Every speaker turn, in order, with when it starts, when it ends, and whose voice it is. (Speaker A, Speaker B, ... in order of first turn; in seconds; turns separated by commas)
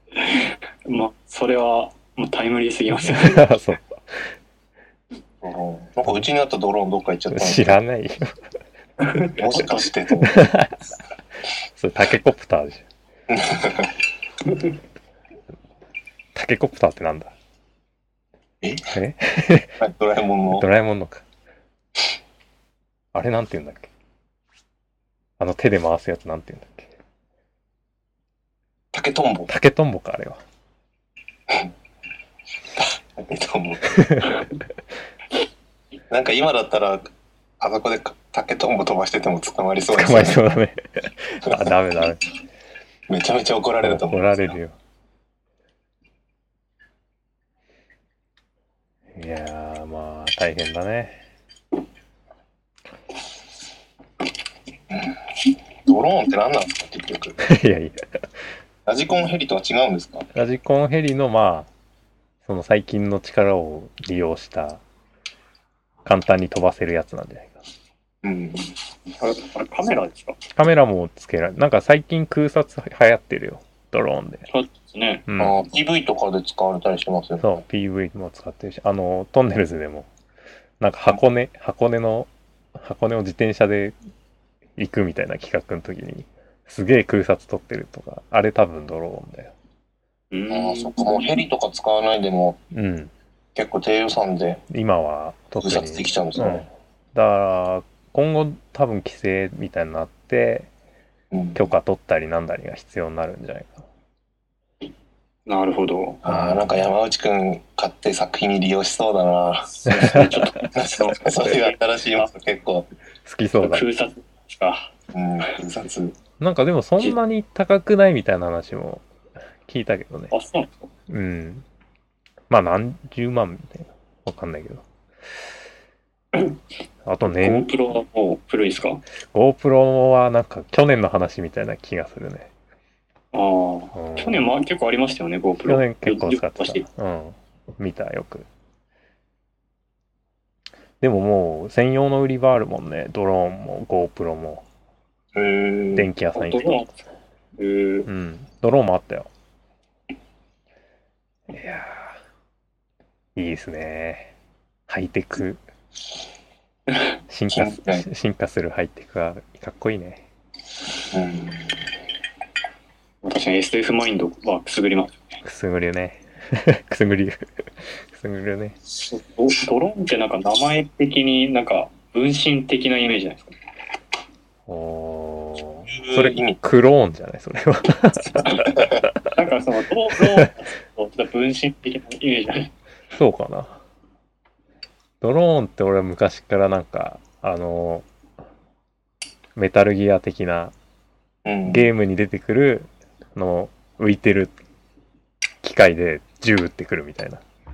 Speaker A: 0.1-3.4, Speaker B: 3.0-4.3, Speaker C: 5.4-7.8, Speaker B: 7.3-8.3, Speaker A: 9.0-9.8, Speaker C: 9.3-10.4, Speaker B: 10.2-10.8, Speaker B: 11.7-12.8, Speaker C: 13.3-13.9, Speaker B: 16.3-17.3, Speaker C: 18.6-18.9, Speaker B: 18.9-19.8, Speaker C: 19.8-20.6, Speaker B: 20.5-21.2, Speaker B: 23.1-23.9, Speaker B: 25.4-26.9, Speaker C: 28.9-29.5, Speaker B: 29.5-30.4, Speaker C: 32.7-33.8, Speaker B: 33.9-34.4, Speaker C: 36.1-37.0, Speaker C: 37.6-40.4, Speaker B: 39.9-42.2, Speaker C: 41.5-41.7, Speaker C: 43.1-44.5, Speaker B: 43.8-44.7, Speaker B: 49.1-51.2, Speaker C: 54.9-57.4, Speaker B: 57.4-58.0, Speaker C: 58.9-60.3, Speaker B: 60.3-61.7, Speaker B: 62.4-64.8, Speaker B: 66.0-67.6, Speaker C: 68.2-68.7, Speaker A: 69.2-70.4, Speaker B: 70.5-74.5, Speaker A: 74.5-75.2, Speaker B: 75.3-75.6, Speaker C: 75.4-77.6, Speaker B: 77.4-80.1, Speaker B: 80.8-84.0, Speaker B: 84.8-89.5, Speaker A: 90.3-91.3, Speaker C: 90.5-92.6, Speaker B: 92.7-93.1, Speaker C: 93.5-94.6, Speaker B: 94.7-100.7, Speaker C: 95.6-96.7, Speaker C: 101.3-101.6, Speaker B: 101.5-103.8, Speaker A: 105.5-106.2, Speaker C: 106.2-112.9, Speaker B: 106.3-106.9, Speaker A: 109.8-112.3, Speaker B: 110.0-110.5, Speaker B: 113.2-113.8, Speaker A: 113.6-114.9, Speaker C: 115.1-116.1, Speaker B: 116.4-119.0, Speaker B: 119.7-120.3, Speaker A: 120.3-120.9, Speaker B: 121.1-121.6, Speaker B: 122.5-124.8, Speaker A: 126.3-126.6, Speaker B: 127.0-127.7, Speaker A: 127.3-129.0, Speaker B: 129.3-132.5, Speaker A: 133.3-136.8, Speaker B: 133.9-134.4, Speaker B: 135.6-138.5, Speaker B: 141.0-144.6, Speaker C: 145.3-146.1, Speaker B: 145.9-146.8, Speaker A: 146.3-147.1, Speaker A: 147.6-148.1, Speaker B: 148.1-149.3, Speaker B: 151.5-152.2, Speaker B: 153.3-154.3, Speaker B: 154.9-155.6, Speaker B: 157.3-160.2, Speaker C: 157.5-158.1, Speaker C: 161.1-161.8, Speaker A: 163.2-165.3, Speaker B: 165.4-168.8, Speaker A: 169.0-173.5, Speaker B: 174.7-179.3, Speaker C: 175.9-176.6, Speaker A: 179.2-182.7, Speaker B: 183.1-183.8, Speaker B: 185.2-188.1, Speaker B: 189.6-190.7, Speaker C: 191.4-191.9, Speaker B: 191.7-194.5, Speaker B: 195.6-197.4